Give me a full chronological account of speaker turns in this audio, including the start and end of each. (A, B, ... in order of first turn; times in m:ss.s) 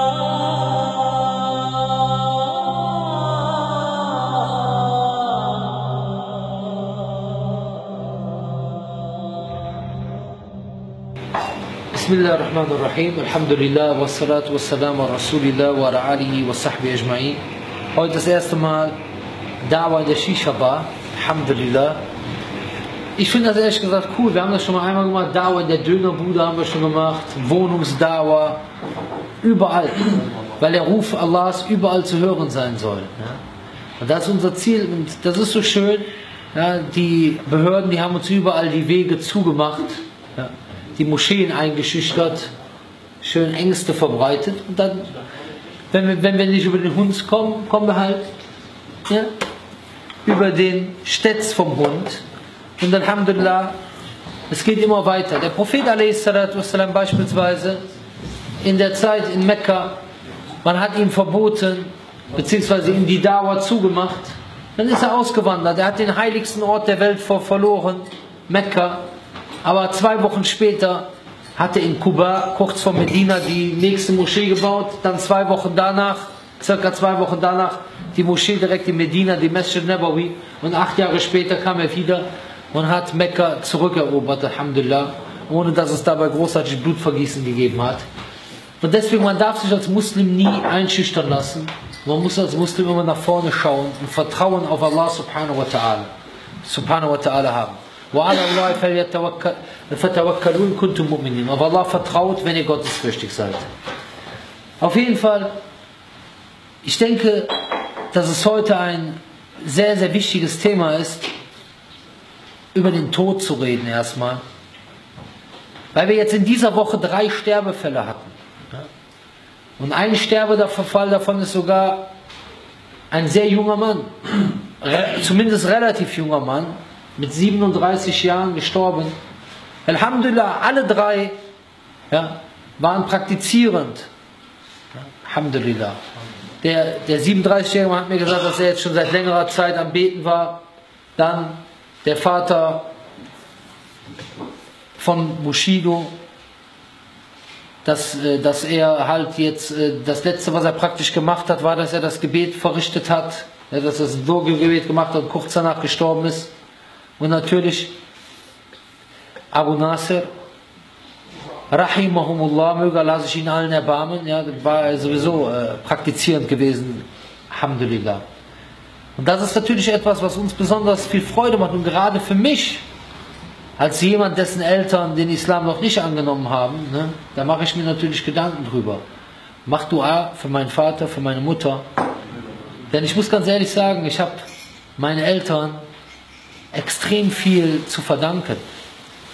0:11.9-0:17.4 A
0:17.9-0:18.9 A
0:19.6-0:22.0 A
0:23.2-0:28.6 A
0:29.4-0:33.4 A
0:34.0-0:42.5 A
0:43.2-0:45.1 A
0:45.9-0:48.3 A
0:50.2-0:52.2 A
0:52.8-0:53.7 A
0:54.5-0:57.8 A
0:58.6-1:00.0 A
1:00.6-1:09.0 A
1:09.6-1:28.0 A
1:28.8-1:36.1 A
1:36.6-1:43.6 A
1:44.8-1:45.5 A
1:46.8-1:47.5 A
1:48.1-1:51.3 A
1:52.7-1:54.4 A
1:55.9-1:58.9 A
1:59.8-2:02.1 A
2:03.1-2:04.1 A
2:04.8-2:09.1 A
2:09.8-2:11.4 A
2:12.1-2:14.1 A
2:15.0-2:16.0 A
2:16.6-2:20.6 A
2:21.2-2:22.9 A
2:25.0-2:26.1 A
2:27.8-2:36.5 A
2:37.2-2:37.9 A
2:39.5-2:40.3 A
2:41.7-2:48.2 A
2:49.2-2:52.8 A
2:53.8-2:59.0 A
2:59.6-3:01.8 A
3:02.9-3:04.4 A
3:05.0-3:05.8 A
3:06.7-3:08.6 A